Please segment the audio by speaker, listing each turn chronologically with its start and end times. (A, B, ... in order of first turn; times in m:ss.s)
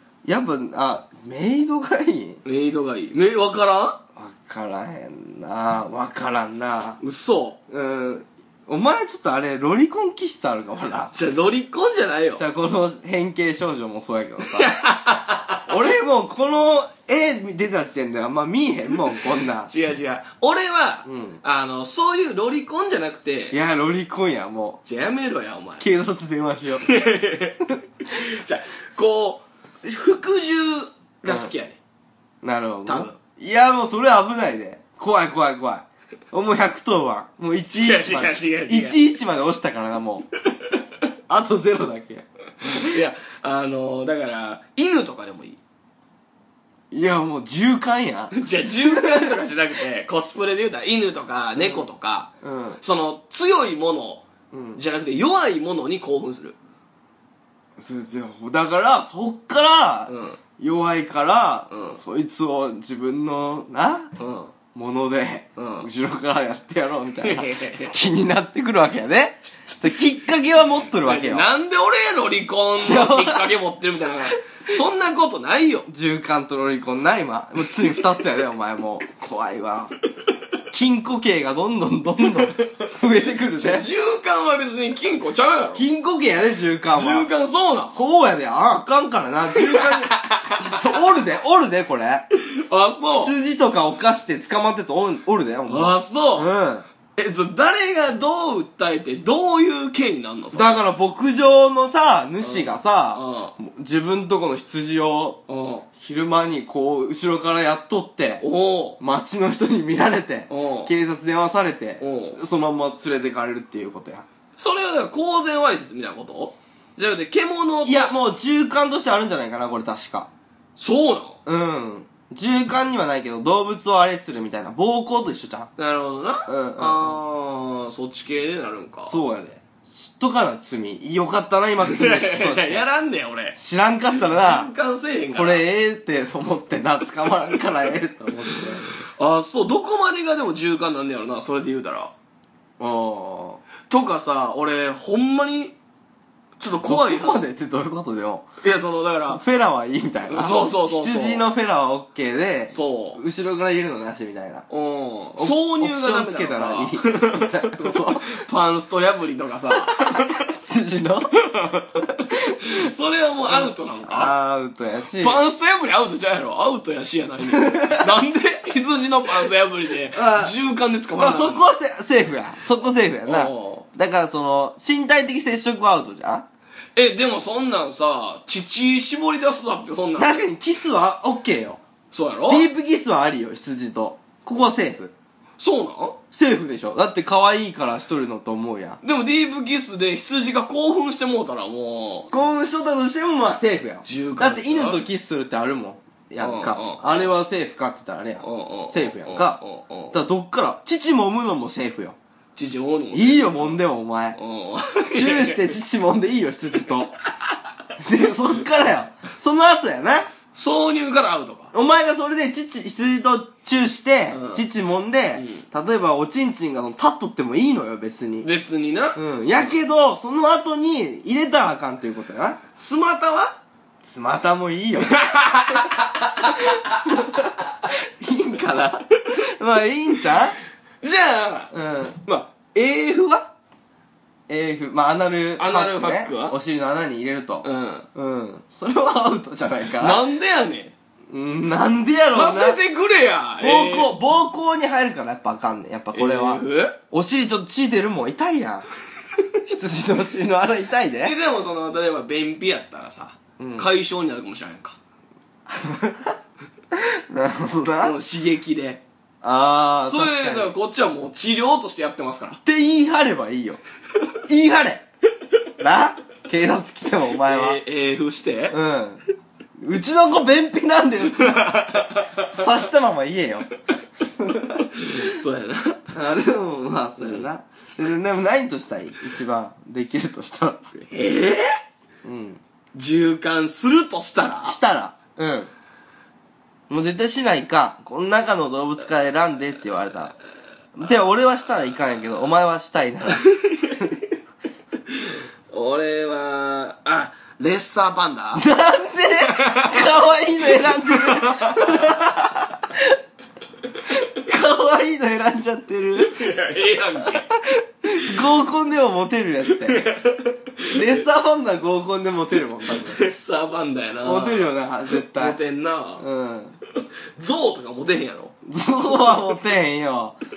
0:00.2-0:02.4 A
0:02.4-0:04.0 B
0:04.2-0:07.0 A
0:07.0-0:07.6 B
0:07.7-0:11.1 A
0:11.1-0:12.4 B
0:12.4-0:14.7 A
0:14.4-0:15.7 B
0:15.7-0:19.7 A
0:19.6-0:23.6 B
0:21.0-0:21.4 A
0:23.5-0:24.8 A
0:24.8-0:25.9 B
0:25.8-0:26.9 A
0:26.8-0:31.8 B
0:31.2-0:31.5 A
0:32.4-0:40.3 A
0:32.8-0:33.2 B
0:37.7-0:39.0 B
0:41.3-0:42.9 A
0:42.6-0:45.6 B
0:46.9-0:49.4 A
0:48.3-0:56.6 B
0:51.6-0:51.8 A
0:52.4-0:52.8 A
0:54.5-0:54.8 A
0:57.8-1:04.1 A
1:00.1-1:00.4 B
1:01.7-1:02.0 B
1:04.2-1:04.5 B
1:04.7-1:11.5 A
1:05.6-1:05.9 B
1:07.2-1:07.9 B
1:10.9-1:15.9 B
1:12.7-1:13.5 A
1:15.9-1:19.9 A
1:20.7-1:23.9 A
1:22.6-1:22.9 B
1:23.5-1:25.8 B
1:25.7-1:27.3 A
1:26.9-1:28.0 B
1:27.9-1:32.3 A
1:29.6-1:30.7 B
1:32.4-1:33.3 B
1:33.1-1:36.9 A
1:35.7-1:36.5 B
1:37.2-1:40.8 B
1:40.5-1:45.4 A
1:42.4-1:43.5 B
1:45.5-1:45.8 B
1:46.0-1:48.4 A
1:48.4-1:49.0 B
1:49.0-1:54.2 A
1:50.5-1:50.9 B
1:52.0-1:52.4 B
1:54.6-1:58.1 B
1:57.8-2:00.3 A
2:00.8-2:01.4 B
2:01.4-2:05.7 A
2:05.8-2:09.2 B
2:06.5-2:07.1 A
2:09.0-2:12.8 A
2:11.8-2:13.6 B
2:13.5-2:14.7 A
2:14.2-2:15.6 B
2:15.3-2:19.0 A
2:19.0-2:22.1 B
2:22.8-2:23.6 A
2:23.9-2:25.7 B
2:26.6-2:27.4 B
2:26.8-2:28.5 A
2:28.6-2:29.4 B
2:29.3-2:34.6 A
2:30.3-2:31.5 B
2:32.7-2:33.2 B
2:34.7-2:40.3 B
2:35.4-2:38.4 A
2:39.7-2:41.4 A
2:41.5-2:41.8 B
2:42.2-2:42.5 A
2:42.6-2:44.3 B
2:43.4-2:45.4 A
2:45.2-2:51.6 B
2:47.5-2:48.1 A
2:50.1-2:50.5 A
2:51.2-2:56.4 A
2:53.2-2:53.8 B
2:57.0-3:00.4 B
3:00.2-3:01.8 A
3:02.1-3:02.7 B
3:02.5-3:05.1 A
3:05.6-3:06.2 B
3:06.3-3:09.0 A
3:09.0-3:12.3 B
3:12.3-3:19.6 A
3:14.0-3:15.0 B
3:16.4-3:17.3 B
3:18.4-3:20.2 B
3:20.1-3:22.2 A
3:22.6-3:23.8 B
3:23.1-3:24.4 A
3:24.3-3:25.7 B
3:25.1-3:27.1 A
3:28.0-3:30.3 A
3:30.5-3:31.7 B
3:31.7-3:38.5 A
3:34.3-3:34.6 B
3:35.3-3:35.6 B
3:38.4-3:39.7 B
3:39.1-3:42.6 A
3:42.8-3:43.6 B
3:44.0-3:45.2 A
3:45.0-3:47.1 B
3:47.0-3:50.6 A
3:51.0-3:51.7 B
3:51.7-3:52.2 A
3:52.2-3:53.4 B
3:52.8-3:53.2 A
3:54.5-4:00.2 A
3:55.6-3:56.6 B
3:57.6-3:58.1 B
4:00.0-4:00.9 B
4:01.3-4:02.8 A
4:02.3-4:04.1 B
4:03.6-4:08.9 A
4:06.1-4:07.0 B
4:09.6-4:11.3 A
4:11.2-4:15.0 B
4:13.6-4:13.9 A
4:15.7-4:16.4 A
4:16.9-4:18.2 A
4:18.0-4:19.0 B
4:19.4-4:20.7 A
4:20.1-4:22.6 B
4:22.6-4:23.8 A
4:24.4-4:25.0 A
4:25.8-4:27.8 A
4:27.4-4:28.8 B
4:28.7-4:29.2 A
4:29.8-4:33.7 A
4:31.5-4:32.5 B
4:34.2-4:35.2 A
4:34.9-4:36.1 B
4:36.1-4:40.9 A
4:37.2-4:37.4 B
4:40.9-4:41.8 B
4:42.2-4:42.6 A
4:42.9-4:44.8 B
4:44.6-4:45.7 A
4:46.9-4:50.4 A
4:51.0-4:53.4 A
4:55.1-4:58.6 B
4:58.5-5:03.2 A
4:59.5-5:00.0 B
5:00.8-5:02.1 B
5:04.2-5:06.6 A
5:06.3-5:07.5 B
5:07.2-5:10.1 A
5:09.8-5:11.2 B
5:10.9-5:13.2 A
5:13.0-5:16.2 B
5:14.2-5:15.6 A
5:16.2-5:16.8 A
5:17.4-5:18.5 B
5:18.6-5:20.4 A